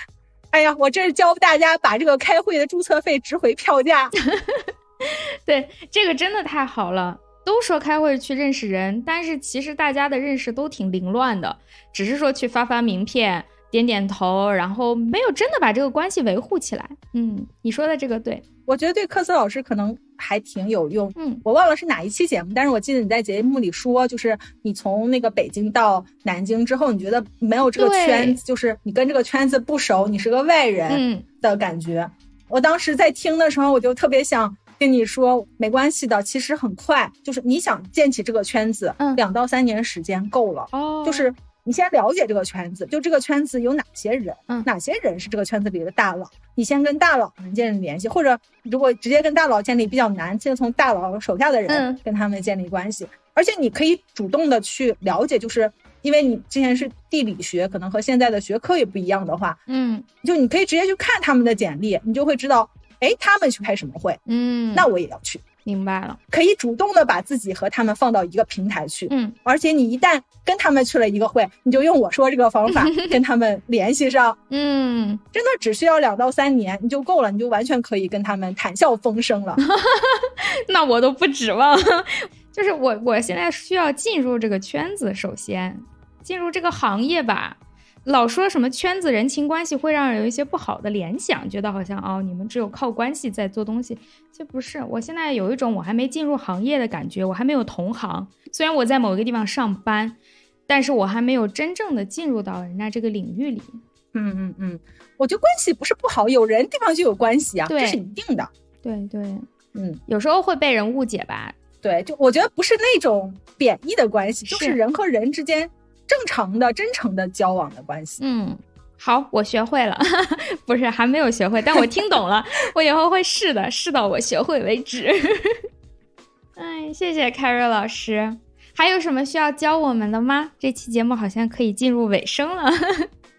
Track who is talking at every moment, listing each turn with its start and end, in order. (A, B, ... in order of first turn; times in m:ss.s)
0:00.5-0:04.1 A
0:04.3-0:18.4 B
0:18.7-0:59.6 A
0:21.2-0:21.4 B
0:27.6-0:28.4 B
0:30.9-0:31.2 B
0:40.7-0:41.3 B
0:51.7-0:52.0 B
0:59.7-1:00.0 B
1:00.2-1:04.2 A
1:04.3-1:04.9 B
1:04.7-1:05.4 A
1:05.6-1:06.2 B
1:06.3-1:14.4 A
1:09.1-1:09.4 B
1:12.8-1:13.1 B
1:14.5-1:15.2 B
1:15.3-1:19.6 A
1:19.6-1:43.8 B
1:44.1-1:48.5 A
1:47.6-1:48.0 B
1:48.8-1:49.4 B
1:49.7-1:50.0 A
1:50.1-1:51.5 B
1:51.8-1:58.2 A
1:54.5-1:54.8 B
1:58.2-2:05.6 B
2:06.6-2:13.1 B